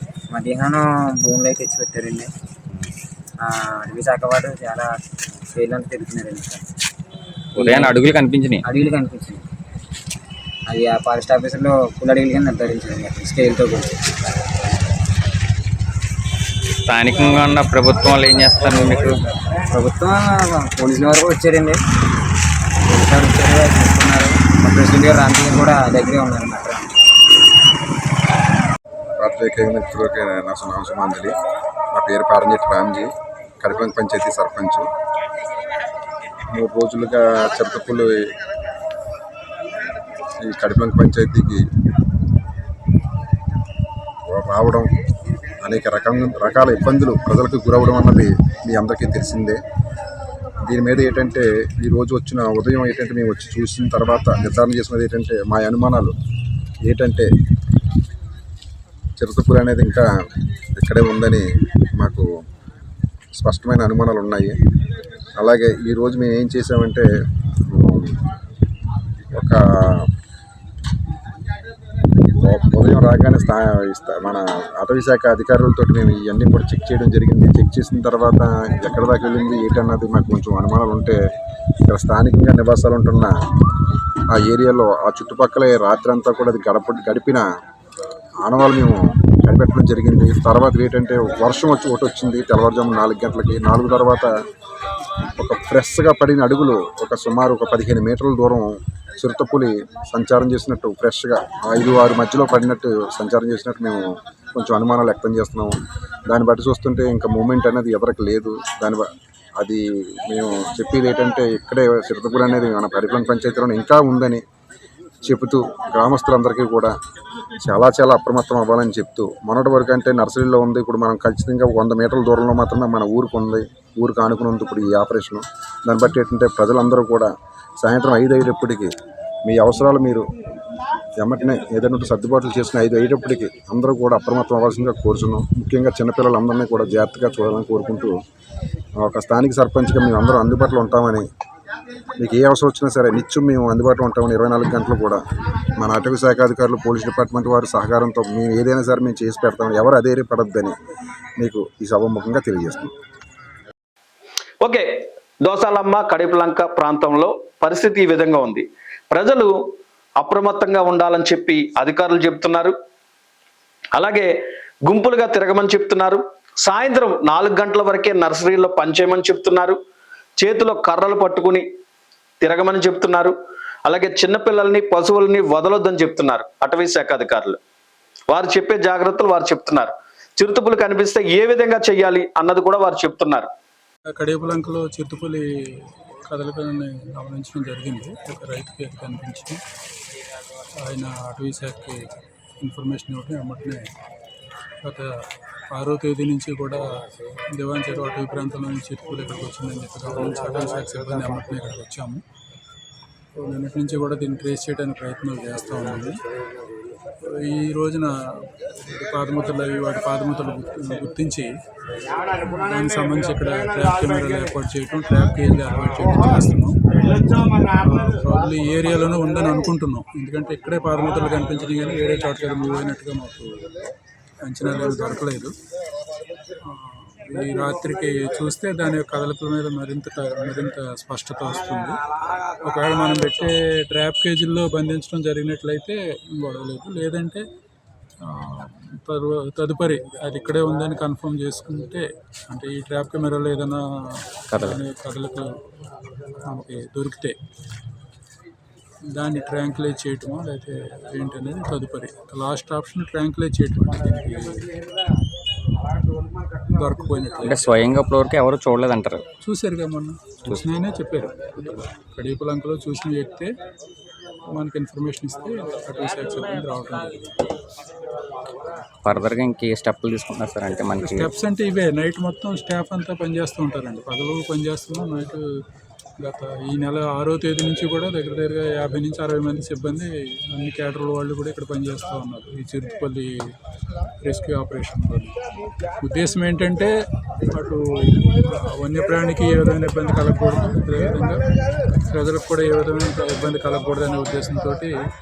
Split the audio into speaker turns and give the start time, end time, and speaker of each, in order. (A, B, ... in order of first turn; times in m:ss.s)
0:00.3-0:02.3 A
0:03.4-0:05.0 A
0:05.5-0:06.6 A
0:07.6-0:08.7 B
0:07.6-0:07.9 A
0:08.7-0:09.5 A
0:10.7-0:14.6 A
0:16.9-0:19.2 B
0:19.7-0:21.8 A
0:22.9-0:26.9 A
0:29.2-0:31.4 C
0:32.0-0:33.1 C
0:33.6-0:34.9 C
0:36.5-0:38.1 C
0:40.4-0:41.6 C
0:44.3-0:44.9 C
0:45.6-0:49.6 C
0:50.6-0:56.1 C
0:56.8-0:57.3 C
0:59.2-1:00.1 C
1:00.8-1:02.3 C
1:03.4-1:04.6 C
1:05.4-1:07.1 C
1:07.7-1:08.2 C
1:09.3-1:10.1 C
1:12.3-1:21.2 C
1:21.9-1:23.4 C
1:24.3-1:27.4 C
1:28.4-1:34.3 C
1:35.4-1:45.8 C
1:46.3-1:49.0 C
1:49.6-1:54.4 C
1:55.2-1:57.0 C
1:57.6-2:08.9 C
2:09.4-2:10.2 C
2:11.2-2:18.2 C
2:19.0-2:21.2 C
2:22.2-2:25.2 C
2:25.8-2:30.8 C
2:31.4-2:32.9 C
2:34.6-2:34.9 D
2:35.4-2:39.5 D
2:40.2-2:42.7 D
2:44.0-2:44.3 D
2:44.8-2:49.8 D
2:50.4-2:51.6 D
2:52.4-2:53.3 D
2:53.9-2:57.6 D
2:58.3-3:03.5 D
3:04.2-3:09.6 E
3:10.8-3:12.0 E
3:12.6-3:13.9 E
3:14.8-3:15.1 E
3:15.7-3:16.8 E
3:17.5-3:22.2 E
3:23.4-3:26.2 E
3:27.2-3:31.5 E
3:32.4-3:36.8 E
3:37.4-3:43.7 E
3:44.4-3:45.6 E
3:46.6-3:52.0 E
3:52.6-3:57.4 E
3:58.2-4:05.6 E
4:04.5-4:04.8 B
4:06.4-4:07.4 E
4:09.1-4:14.7 E
4:16.7-4:17.6 E
4:17.4-4:19.3 B
4:19.4-4:23.6 E
4:24.5-4:27.6 E
4:29.0-4:31.3 B
4:31.0-4:35.4 E
4:36.2-4:43.6 E
4:44.2-4:45.4 E
4:46.0-4:46.9 E
4:47.5-4:51.4 E
4:52.1-4:55.0 E